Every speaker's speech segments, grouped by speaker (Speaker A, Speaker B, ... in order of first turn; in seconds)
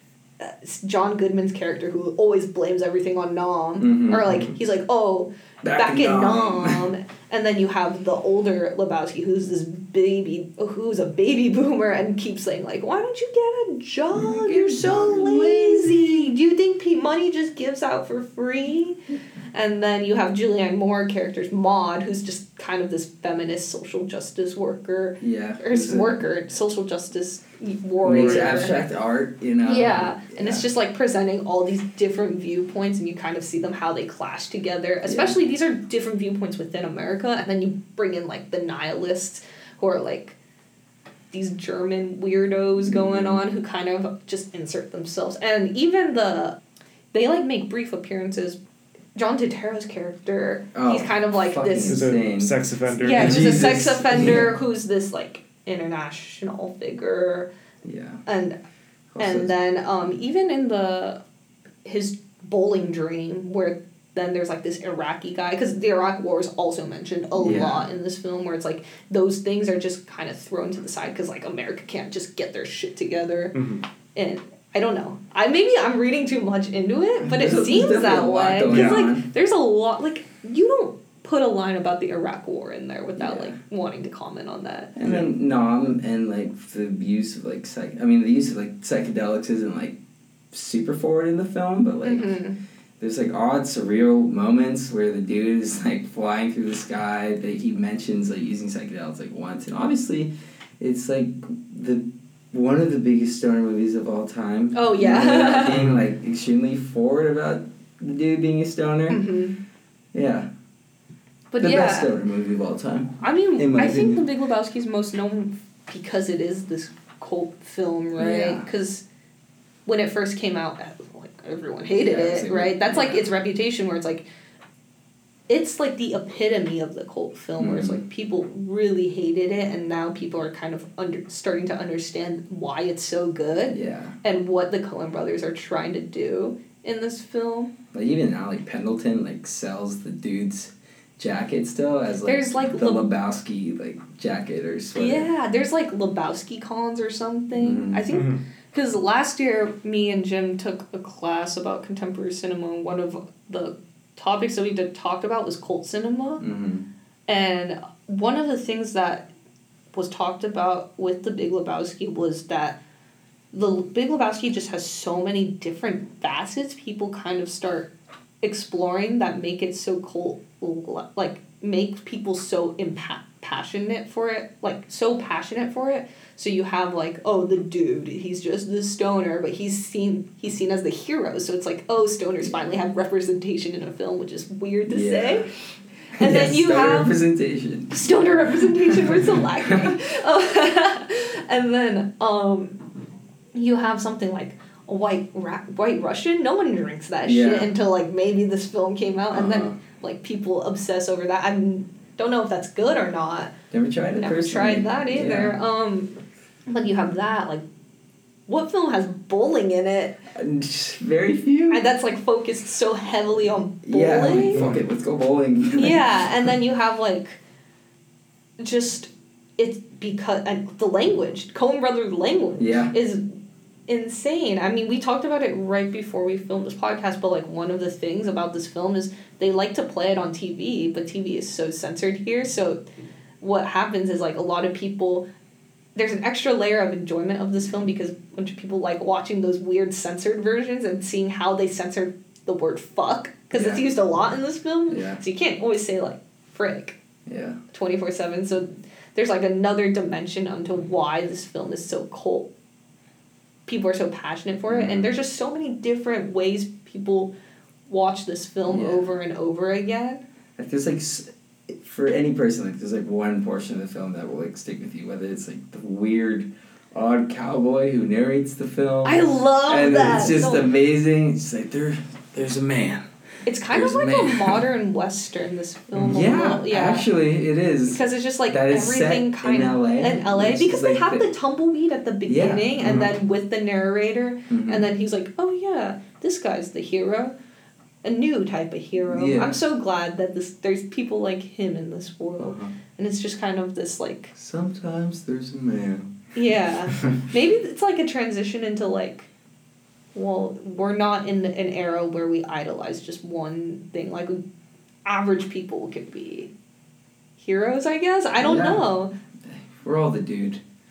Speaker A: 0.4-19.0, 19.5-28.8, 29.6-40.4, 41.3-46.6, 47.1-48.6, 49.1-52.0, 53.0-57.5, 58.2-58.6, 59.2-61.2, 61.8-73.6, 74.1-84.9, 92.0-92.6, 104.7-105.8, 109.1-109.6, 111.5-112.1, 113.2-119.0, 119.8-124.2, 125.5-137.7, 142.2-143.1, 144.9-156.4, 157.3-159.3, 159.9-162.8, 163.5-185.5, 186.2-187.2, 187.9-192.8, 193.5-203.5, 204.2-206.2, 206.7-207.6, 208.5-210.2, 211.7-214.6, 215.8-217.4, 218.6-223.2, 223.9-232.8, 233.4-235.3, 235.9-247.0, 247.7-252.5, 253.7-257.3, 257.9-260.2, 269.0-270.7, 273.4-277.1, 277.9-287.3, 288.0-294.3, 296.3-299.3, 300.1-304.4, 305.0-306.5, 307.4-309.1
Speaker B: 3.8-4.4, 5.6-6.8, 14.1-16.3, 25.2-26.2, 28.0-30.6, 35.0-35.4, 42.8-43.4, 50.7-54.5, 57.8-58.2, 59.1-59.5, 67.4-67.9, 77.2-79.3, 83.2-83.6, 85.0-90.0, 90.5-92.4, 93.0-109.2, 110.1-110.5, 111.6-114.2, 118.2-118.7, 122.0-123.2, 127.6-128.0, 133.7-134.2, 137.9-145.3, 147.6-148.0, 156.4-156.9, 184.9-185.5, 186.2-188.0, 189.0-189.9, 197.2-197.7, 199.3-199.8, 203.7-205.6, 210.3-211.8, 213.8-216.5, 222.6-222.9, 243.5-243.8, 244.9-245.2, 247.2-247.6, 254.7-255.1, 258.7-259.1, 260.6-273.1, 273.7-274.6, 276.0-281.3, 282.3-283.1, 284.5-284.9, 289.0-289.6, 292.4-292.7, 294.3-296.1, 308.4-308.9, 309.4-310.6
Speaker C: 28.0-28.7, 51.9-53.9, 73.5-73.8, 78.7-79.0, 85.0-85.3, 105.7-106.0, 148.1-148.4, 282.8-283.1